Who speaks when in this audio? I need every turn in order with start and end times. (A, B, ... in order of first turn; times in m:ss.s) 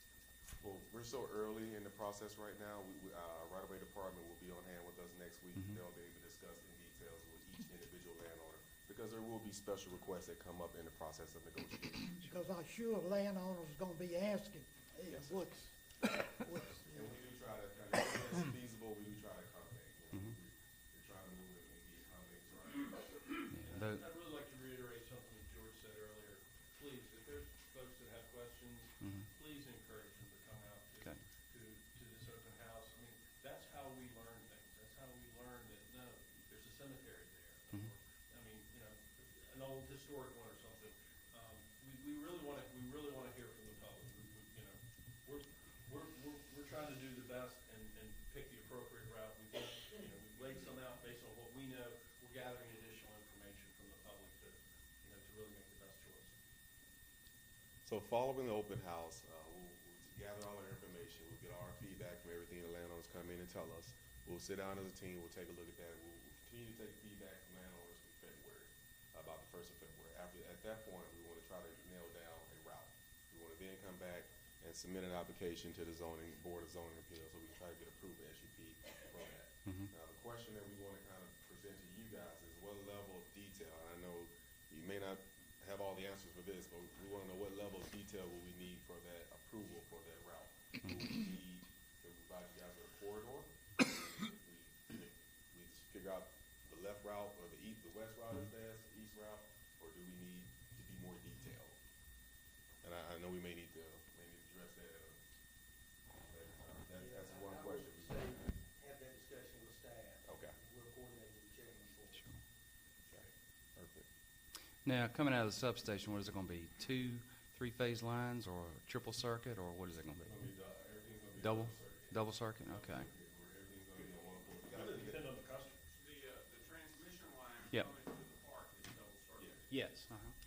0:00.6-0:12.4 A
0:12.2-0:17.1 B
0:15.1-0:15.4 A
0:16.4-0:23.3 A
0:23.5-0:24.0 C
0:23.6-0:56.3 D
0:29.0-0:29.3 C
0:57.8-1:41.8 A
1:42.8-1:45.2 A
1:46.2-1:48.5 A
1:46.9-1:52.2 E
1:50.2-1:50.6 A
1:53.1-1:54.1 A
1:54.8-2:00.4 C
2:00.2-2:05.3 A
2:01.4-2:03.1 C
2:04.0-2:05.8 D
2:05.9-2:09.8 F
2:09.7-2:10.3 C